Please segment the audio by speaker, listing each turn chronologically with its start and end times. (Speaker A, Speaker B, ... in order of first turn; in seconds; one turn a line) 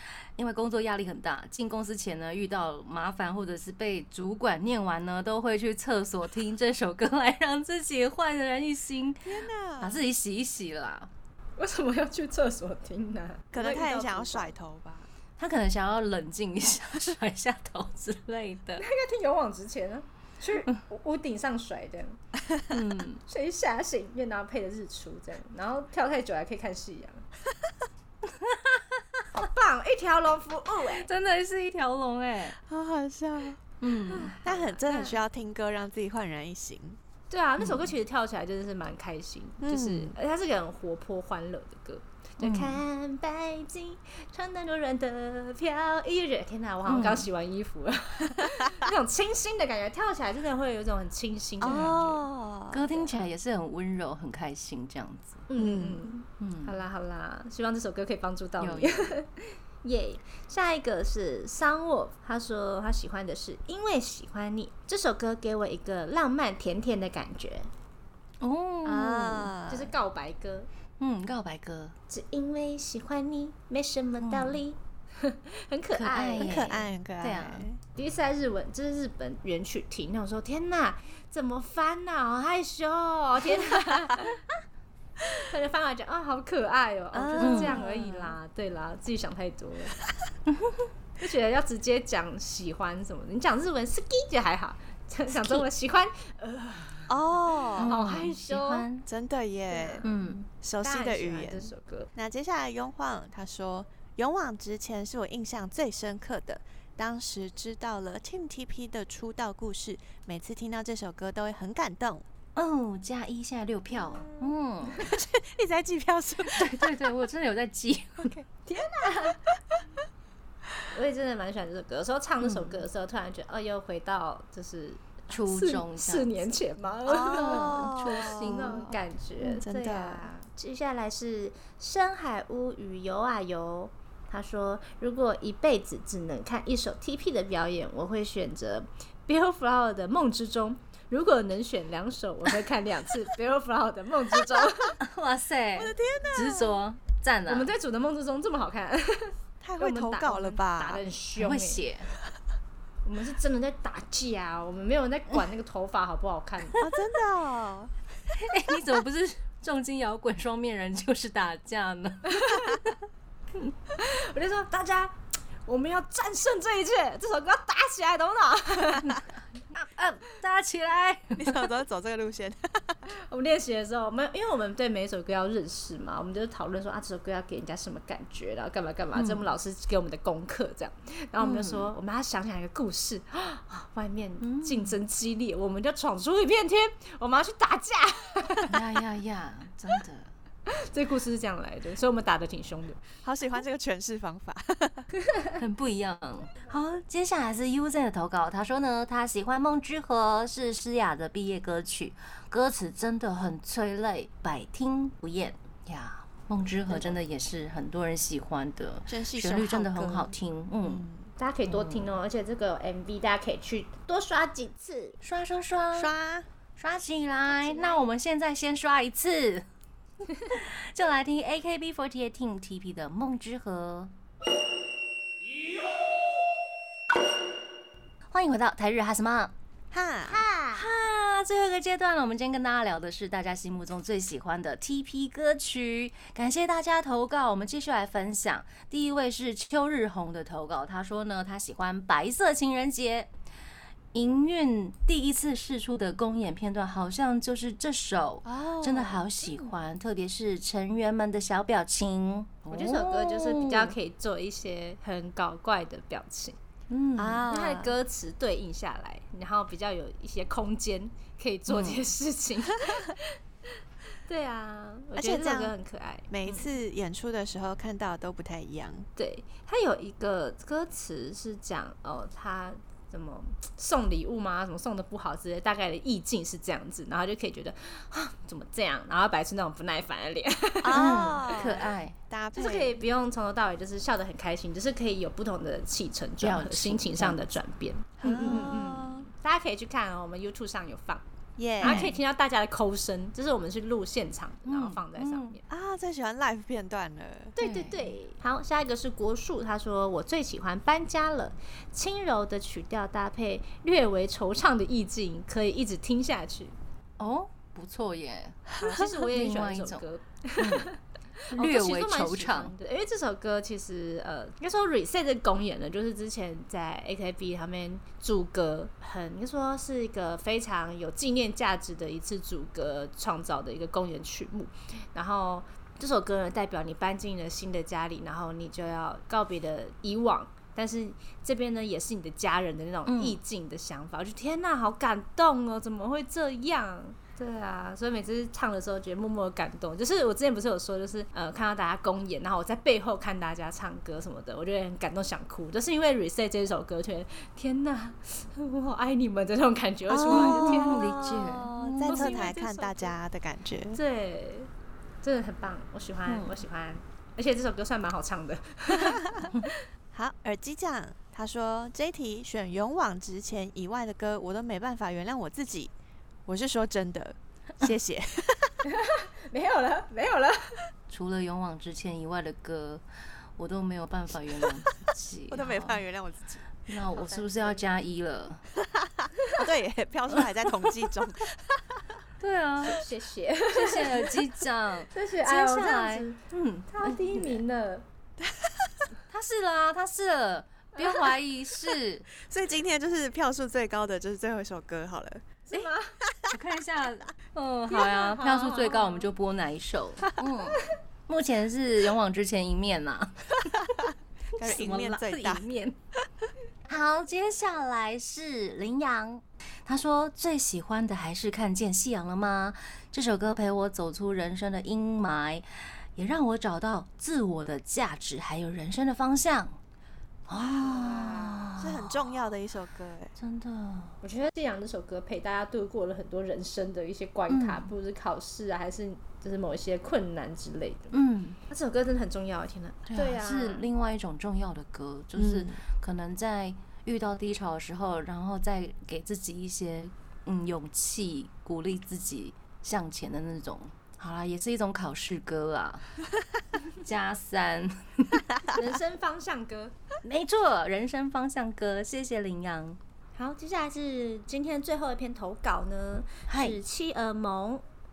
Speaker A: 0.4-9.3
Speaker B: 9.2-10.1
Speaker A: 9.8-11.1
Speaker C: 11.6-14.5
Speaker B: 13.5-15.1
Speaker A: 15.4-18.9
Speaker C: 18.8-22.2
Speaker A: 22.7-23.2
Speaker C: 23.3-27.3
Speaker A: 28.3-29.0
Speaker C: 29.3-31.1
Speaker A: 31.0-32.6
Speaker B: 32.6-33.6
Speaker A: 33.8-34.4
Speaker C: 34.1-35.2
Speaker B: 34.4-37.0
Speaker C: 37.3-52.2
Speaker A: 37.6-37.9
Speaker B: 39.6-40.1
Speaker A: 42.4-42.8
Speaker A: 46.9-47.3
Speaker B: 51.6-52.9
Speaker A: 51.6-52.0
Speaker A: 52.7-55.5
Speaker C: 55.5-67.7
Speaker B: 55.6-56.1
Speaker A: 56.4-56.8
Speaker A: 58.6-59.2
Speaker A: 68.4-69.5
Speaker B: 68.8-69.9
Speaker C: 69.7-70.7
Speaker A: 71.0-72.0
Speaker C: 72.1-76.8
Speaker A: 74.2-74.6
Speaker A: 75.9-77.7
Speaker B: 76.4-77.8
Speaker C: 78.0-84.6
Speaker C: 85.3-90.0
Speaker B: 87.1-88.4
Speaker A: 87.4-87.8
Speaker A: 90.5-90.9
Speaker C: 91.2-98.9
Speaker A: 95.3-95.7
Speaker B: 97.1-98.0
Speaker A: 97.8-99.1
Speaker B: 99.1-100.0
Speaker C: 99.7-100.2
Speaker A: 100.0-100.5
Speaker B: 100.6-112.2
Speaker C: 100.8-102.1
Speaker A: 112.5-115.1
Speaker B: 114.0-117.0
Speaker A: 116.5-118.3
Speaker B: 118.2-118.5
Speaker C: 118.7-119.4
Speaker C: 120.9-145.0
Speaker A: 122.4-122.8
Speaker A: 125.3-126.5
Speaker B: 127.1-130.3
Speaker A: 127.2-128.9
Speaker A: 145.0-147.7
Speaker B: 145.8-146.8
Speaker C: 147.5-151.8
Speaker B: 149.6-151.1
Speaker A: 151.4-152.1
Speaker C: 153.0-156.8
Speaker B: 156.8-157.9
Speaker A: 158.3-162.9
Speaker C: 162.3-162.8
Speaker C: 163.6-169.2
Speaker A: 169.7-171.7
Speaker B: 171.4-173.1
Speaker C: 173.1-188.7
Speaker A: 179.2-179.5
Speaker A: 181.4-181.9
Speaker A: 184.4-185.0
Speaker A: 188.7-190.3
Speaker C: 190.7-193.0
Speaker B: 193.2-195.1
Speaker C: 195.2-195.5
Speaker A: 195.6-211.1
Speaker B: 206.9-207.2
Speaker B: 209.1-211.3
Speaker C: 211.4-215.2
Speaker A: 211.7-212.1
Speaker A: 215.2-216.1
Speaker B: 215.9-216.5
Speaker A: 216.8-219.7
Speaker C: 217.5-218.0
Speaker A: 220.5-224.1
Speaker A: 228.3-229.5
Speaker B: 229.9-230.5
Speaker C: 230.3-230.8
Speaker A: 230.7-243.3
Speaker A: 244.1-253.9
Speaker B: 248.4-249.7
Speaker C: 252.7-256.6
Speaker A: 256.9-257.4
Speaker B: 257.2-257.9
Speaker C: 257.5-263.7
Speaker A: 261.7-262.0
Speaker C: 264.3-266.7
Speaker B: 265.2-265.8
Speaker B: 266.3-269.1
Speaker C: 269.2-281.4
Speaker B: 280.8-283.0
Speaker A: 280.9-282.2
Speaker C: 282.6-291.2
Speaker A: 286.4-287.4
Speaker B: 288.2-289.3
Speaker A: 288.3-288.7
Speaker B: 291.6-292.1
Speaker C: 291.8-295.6
Speaker A: 291.8-292.1
Speaker A: 294.7-295.6
Speaker B: 295.7-297.6
Speaker C: 297.6-306.8
Speaker A: 297.6-298.1
Speaker A: 307.2-310.0
Speaker C: 308.8-311.0
Speaker A: 310.6-310.9
Speaker C: 311.5-351.1
Speaker A: 311.5-312.7
Speaker A: 333.1-333.4
Speaker B: 350.1-354.0
Speaker A: 350.3-352.5
Speaker C: 352.0-353.2
Speaker C: 353.9-354.7
Speaker C: 355.2-359.8
Speaker A: 356.3-356.6
Speaker B: 358.9-359.5
Speaker B: 360.1-365.9
Speaker B: 366.5-368.8
Speaker C: 368.8-370.9
Speaker A: 371.1-373.0
Speaker A: 373.6-376.0
Speaker B: 375.5-376.7
Speaker A: 376.9-378.6
Speaker C: 377.1-377.8
Speaker B: 378.8-382.2
Speaker A: 380.4-380.9
Speaker A: 382.4-383.0
Speaker C: 382.9-384.4
Speaker A: 383.7-387.6
Speaker C: 385.1-388.1
Speaker B: 388.4-389.0
Speaker A: 389.3-392.3
Speaker B: 392.4-395.5
Speaker C: 395.7-396.1
Speaker A: 396.5-403.9
Speaker C: 397.9-399.3
Speaker B: 404.6-405.7
Speaker C: 404.6-406.0
Speaker A: 406.9-419.8
Speaker A: 420.5-422.4
Speaker C: 420.7-421.7
Speaker B: 421.8-423.3
Speaker A: 423.4-424.2
Speaker C: 424.2-431.2
Speaker A: 427.5-427.9
Speaker A: 431.1-431.6
Speaker C: 431.7-433.9
Speaker A: 433.1-446.1
Speaker B: 435.4-435.8
Speaker A: 446.9-448.6
Speaker C: 448.7-449.9
Speaker A: 450.2-453.0
Speaker C: 453.4-457.8
Speaker A: 456.5-456.8